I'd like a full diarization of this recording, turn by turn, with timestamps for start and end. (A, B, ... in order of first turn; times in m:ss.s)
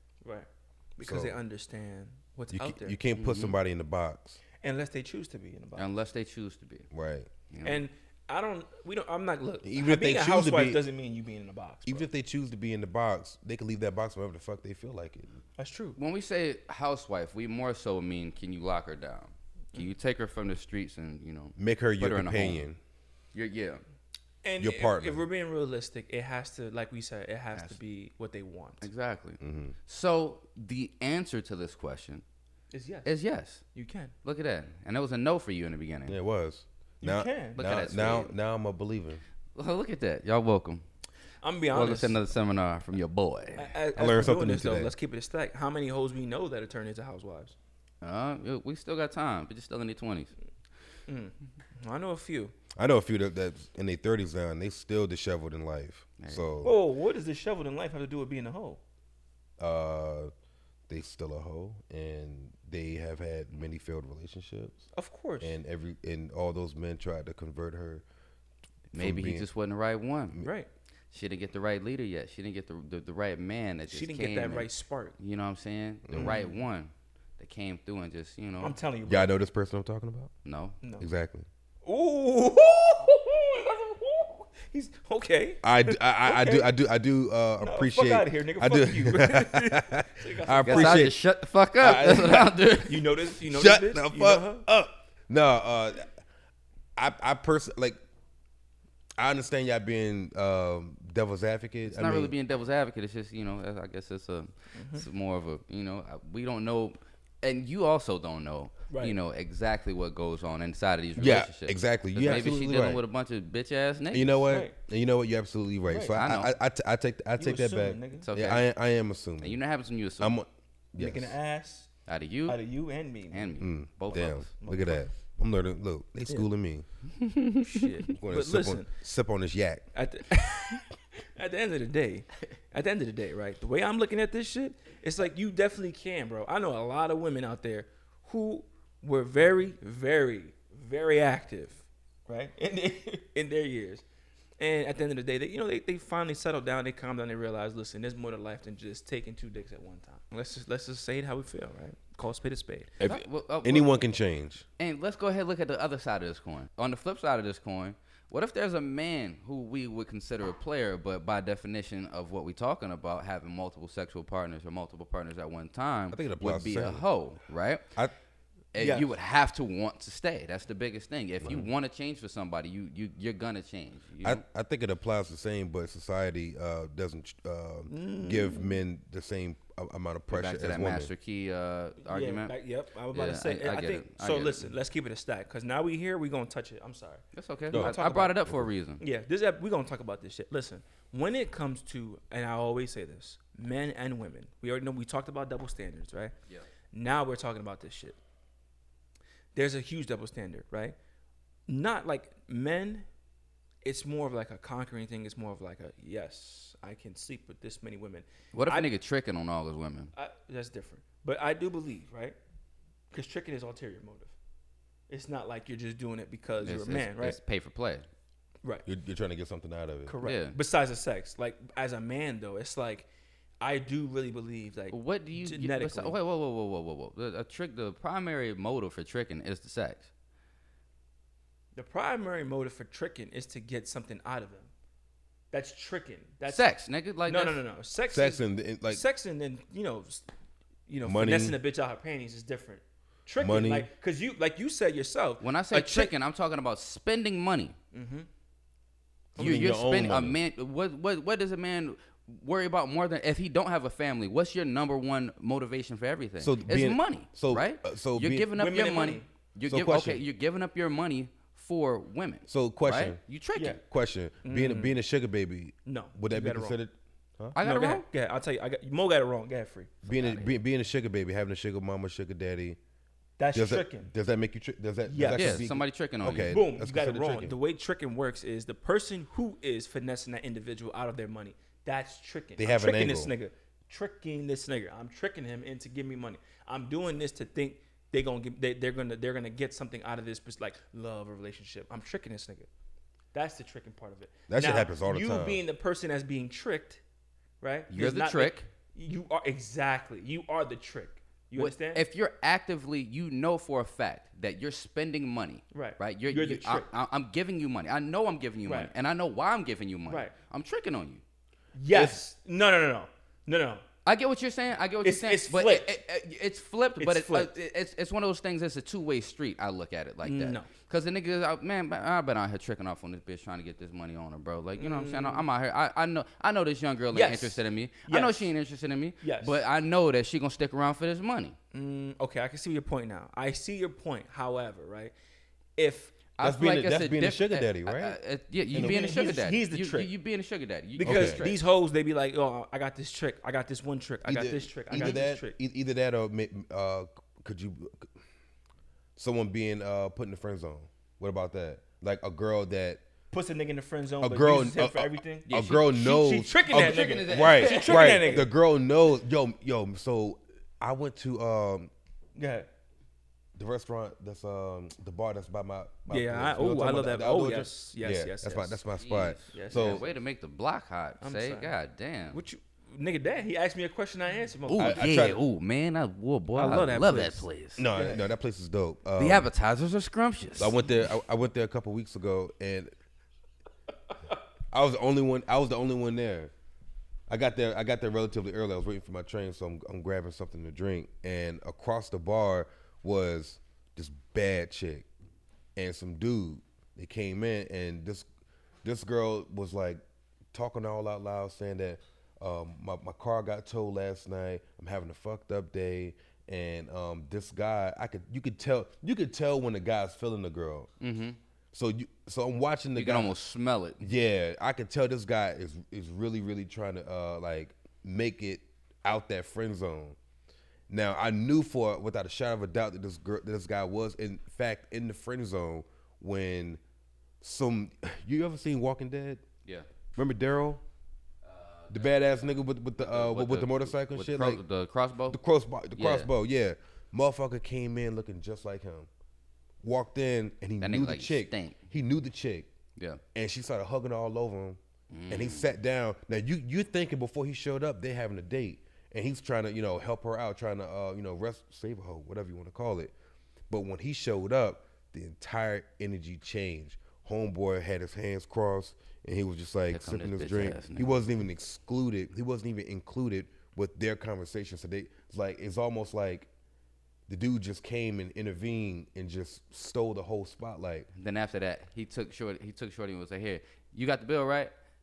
0:00.2-0:03.0 A
0:01.0-0:01.4 B
0:02.5-0:04.4 B
0:03.2-0:03.6 C
0:04.6-0:05.9 A
0:05.8-0:06.9 C
0:06.9-0:07.3 B
0:07.5-0:07.8 C
0:07.6-0:12.1 A
0:09.6-0:10.8 B
0:11.8-0:15.3 B
0:15.6-0:16.0 A
0:16.0-0:22.6 C
0:21.6-0:22.8 B
0:23.3-0:23.8 C
0:24.4-0:28.9 A
0:24.6-0:25.2 B
0:28.8-0:32.2 C
0:29.4-0:29.7 B
0:32.7-0:33.1 A
0:33.0-0:33.6 C
0:33.7-0:34.1 A
0:34.2-0:36.2 C
0:36.1-0:39.2 B
0:37.0-0:37.7 A
0:37.6-0:38.3 C
0:39.5-0:40.8 C
0:41.4-0:42.2 A
0:41.7-0:43.7 C
0:43.6-0:47.5 A
0:44.0-0:44.9 B
0:48.0-0:50.3 C
0:51.1-0:52.5 A
0:52.7-0:56.7 B
0:56.2-0:56.5 C
0:56.6-0:58.8 A
0:59.6-1:00.3 B
1:00.9-1:04.8 B
1:04.9-1:05.6 A
1:05.4-1:08.0 B
1:08.9-1:10.4 C
1:08.9-1:09.4 B
1:10.4-1:10.7 A
1:11.1-1:18.8 C
1:13.9-1:15.2 A
1:16.1-1:16.4 B
1:16.1-1:16.5 A
1:18.6-1:19.3 A
1:19.1-1:20.3 B
1:20.4-1:20.8 C
1:21.0-1:21.5 B
1:21.8-1:26.7 A
1:25.6-1:31.2 B
1:27.6-1:31.1 A
1:30.6-1:33.1 C
1:31.8-1:32.6 B
1:32.8-1:34.6 A
1:33.5-1:36.1 B
1:37.0-1:38.0 B
1:39.2-1:42.3 B
1:41.9-1:54.5 C
1:44.7-1:45.0 A
1:48.9-1:49.2 A
1:51.2-1:53.0 B
1:54.1-1:59.6 B
1:54.5-1:54.7 A
1:55.9-1:56.2 A
1:56.1-1:56.5 C
1:57.4-1:58.3 A
1:58.2-1:58.7 C
1:59.4-2:00.4 C
2:00.2-2:01.3 B
2:01.0-2:01.9 A
2:02.1-2:02.6 C
2:02.5-2:03.6 A
2:03.3-2:04.5 C
2:03.6-2:06.8 B
2:04.6-2:05.1 A
2:07.2-2:07.9 C
2:07.6-2:08.9 A
2:08.1-2:09.8 B
2:09.9-2:24.0 A
2:24.6-2:32.9 A
2:33.0-2:34.6 B
2:33.0-2:34.0 C
2:34.8-2:47.9 C
2:46.1-2:47.0 B
2:48.7-2:54.4 C
2:48.8-2:49.1 A
2:51.4-2:51.7 B
2:54.2-3:01.1 B
2:57.9-2:58.8 A
3:00.3-3:02.5 C
3:02.0-3:08.4 A
3:03.1-3:04.7 C
3:07.3-3:09.0 C
3:07.7-3:08.7 B
3:09.0-3:16.3 A
3:16.9-3:18.2 A
3:19.5-3:21.0 A
3:21.7-3:23.1 A
3:23.8-3:28.9 A
3:28.5-3:30.1 C
3:30.1-3:32.4 A
3:33.1-3:34.3 A
3:35.1-3:37.4 A
3:36.6-3:38.0 C
3:38.8-3:40.1 B
3:40.0-3:43.1 A
3:40.2-3:40.6 C
3:43.6-3:46.2 A
3:44.9-3:50.1 C
3:51.8-3:54.7 A
3:55.5-3:56.7 A
3:56.5-3:57.6 C
3:57.3-4:00.3 A
3:58.1-3:59.0 B
4:00.9-4:06.1 A
4:01.0-4:01.6 B
4:03.4-4:03.9 B
4:05.4-4:07.7 C
4:07.9-4:08.3 A
4:09.4-4:10.4 B
4:09.4-4:09.7 A
4:09.4-4:23.8 C
4:16.4-4:18.5 B
4:18.6-4:19.3 A
4:19.7-4:20.2 B
4:22.5-4:23.2 B
4:23.5-4:23.8 A
4:23.8-4:27.6 B
4:24.4-4:25.0 A
4:25.8-4:26.8 A
4:27.5-4:28.0 C
4:27.6-4:30.5 A
4:30.0-4:32.8 B
4:33.4-4:34.1 A
4:33.5-4:37.5 B
4:35.0-4:35.6 A
4:35.3-4:36.6 C
4:36.4-4:52.7 A
4:42.6-4:43.3 B
4:53.3-4:57.0 A
4:54.5-4:55.6 B
4:57.6-5:02.0 A
4:57.9-4:58.6 C
5:01.5-5:11.2 C
5:05.7-5:06.9 A
5:08.6-5:08.9 A
5:10.1-5:10.3 A
5:11.7-5:13.8 A
5:11.9-5:12.2 B
5:14.0-5:31.6 C
5:15.0-5:16.0 A
5:17.0-5:17.5 A
5:20.2-5:20.7 A
5:24.8-5:25.4 A
5:27.1-5:28.5 A
5:29.2-5:29.6 A
5:31.7-5:35.1 A
5:35.8-5:36.2 A
5:36.4-5:41.6 C
5:36.4-5:38.2 B
5:38.7-5:39.0 B
5:38.7-5:40.1 A
5:41.0-5:45.6 A
5:41.0-5:41.4 B
5:44.2-5:48.1 B
5:49.2-5:53.0 B
5:53.3-5:58.5 A
5:54.2-6:01.9 B
5:55.5-5:55.9 C
5:56.7-5:58.4 C
6:02.4-6:02.7 A
6:03.5-6:10.0 B
6:06.1-6:08.8 A
6:09.0-6:12.4 C
6:09.5-6:10.1 A
6:11.2-6:11.7 A
6:12.3-6:15.3 A
6:14.7-6:17.8 C
6:14.8-6:15.4 B
6:16.5-6:18.2 A
6:17.8-6:19.5 B
6:19.2-6:20.8 C
6:20.6-6:22.9 B
6:24.7-6:26.5 B
6:27.3-6:35.1 B
6:35.8-6:38.3 B
6:38.8-6:40.0 B
6:40.5-6:50.9 B
6:51.0-6:51.4 C
6:51.7-6:53.3 B
6:52.9-6:54.1 C
6:54.0-7:00.2 B
7:00.9-7:06.8 B
7:07.4-7:09.4 B
7:10.2-7:10.8 B
7:11.4-7:15.4 C
7:11.9-7:14.6 B
7:15.3-7:19.1 B
7:15.9-7:16.3 C
7:19.8-7:22.7 B
7:20.8-7:21.8 C
7:23.3-7:24.8 B
7:25.1-7:25.7 C
7:25.3-7:33.1 B
7:33.7-7:46.5 B
7:39.9-7:41.1 C
7:47.3-7:51.1 B
7:51.1-7:54.7 C